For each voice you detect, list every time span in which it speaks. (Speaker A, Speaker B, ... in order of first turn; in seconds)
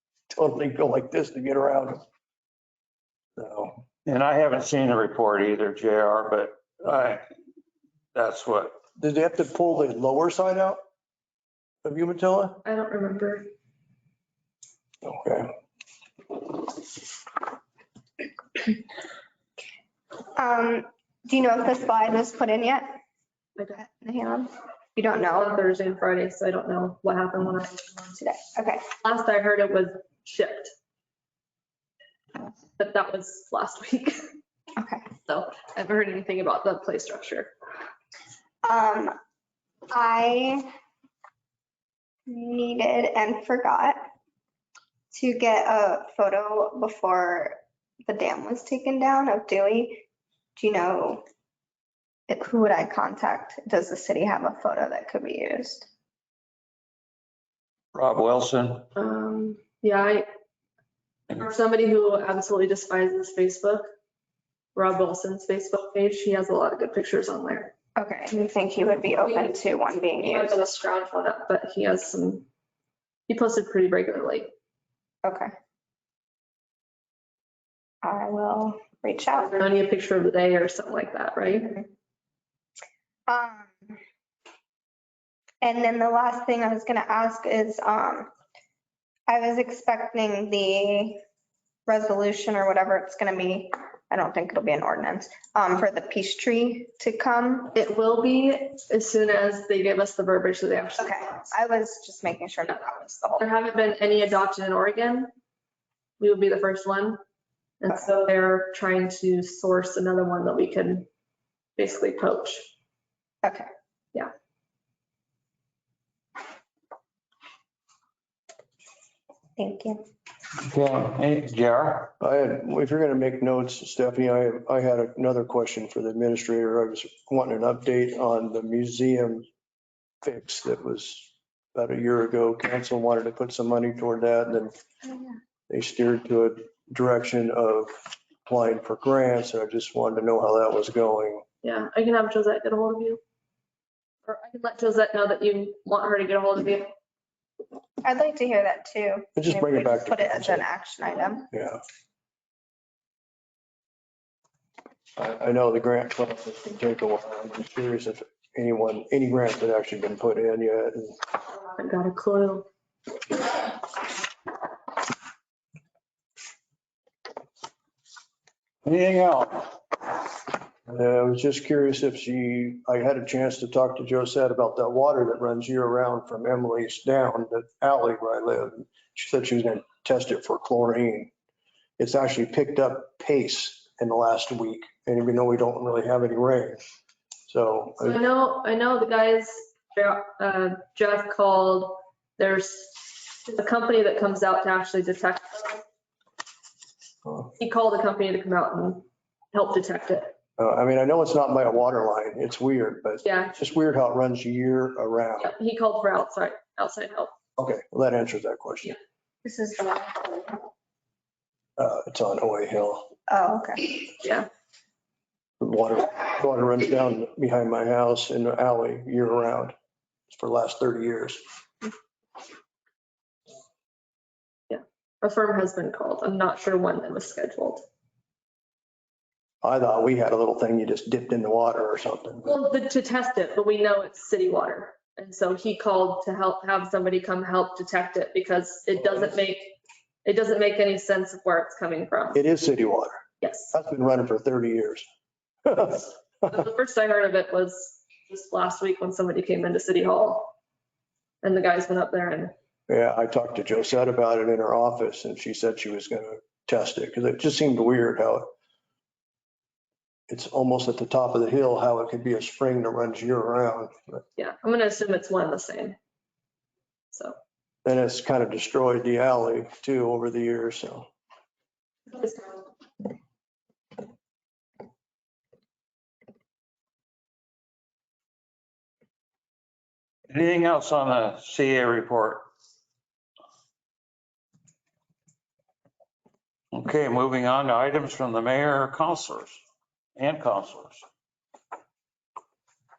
Speaker A: 0.3-2.0, 3.4-3.8, 9.0-10.8, 11.8-12.6, 15.0-15.5, 122.2-129.4, 130.2-134.7, 135.7-137.9, 138.4-141.4, 149.3-150.6, 151.5-151.8, 155.2-161.2, 170.9-181.3, 182.0-186.8, 187.5-188.2, 200.6-205.5, 207.6-208.9, 211.8-213.1, 215.6-219.7, 220.3-221.4, 229.6-232.6, 242.3-245.1, 245.7-246.5, 252.9-258.5, 260.3-264.2, 267.8-271.1
Speaker B: 4.0-7.2, 8.1-8.8, 57.9-58.9, 120.6-122.1, 168.8-169.7, 280.3-282.4, 286.7-289.6, 290.1-291.0
Speaker C: 12.6-13.5, 25.2-28.2, 29.0-30.7, 32.8-34.3, 35.3-37.5, 59.0-60.3, 61.3-63.8, 64.7-67.7, 69.2-69.6, 70.2-72.5, 73.3-74.5, 79.3-81.8, 97.7-101.4, 103.4-105.3, 106.2-107.2, 107.8-111.1, 111.8-112.7, 141.6-143.2, 144.2-146.9, 161.7-162.7, 188.0-195.8, 197.6-200.3, 203.2-203.6, 205.4-207.3, 214.2-214.5, 224.7-227.8, 232.4-242.4, 243.4-243.7, 246.5-250.5, 251.4-252.5, 264.4-266.0, 267.1-267.4, 272.1-272.6
Speaker D: 20.4-23.0, 23.7-25.5, 28.2-28.9, 34.8-35.0, 38.6-39.1, 39.9-40.7, 42.3-44.1, 45.1-50.0, 50.5-51.2, 52.3-55.9, 68.0-70.6, 75.2-75.5, 78.0-79.5, 83.3-84.0, 85.6-88.3, 89.3-91.2, 91.8-97.7, 101.0-103.4, 113.4-113.7, 119.6-120.0, 148.0-151.5, 209.4-210.6, 213.3-214.1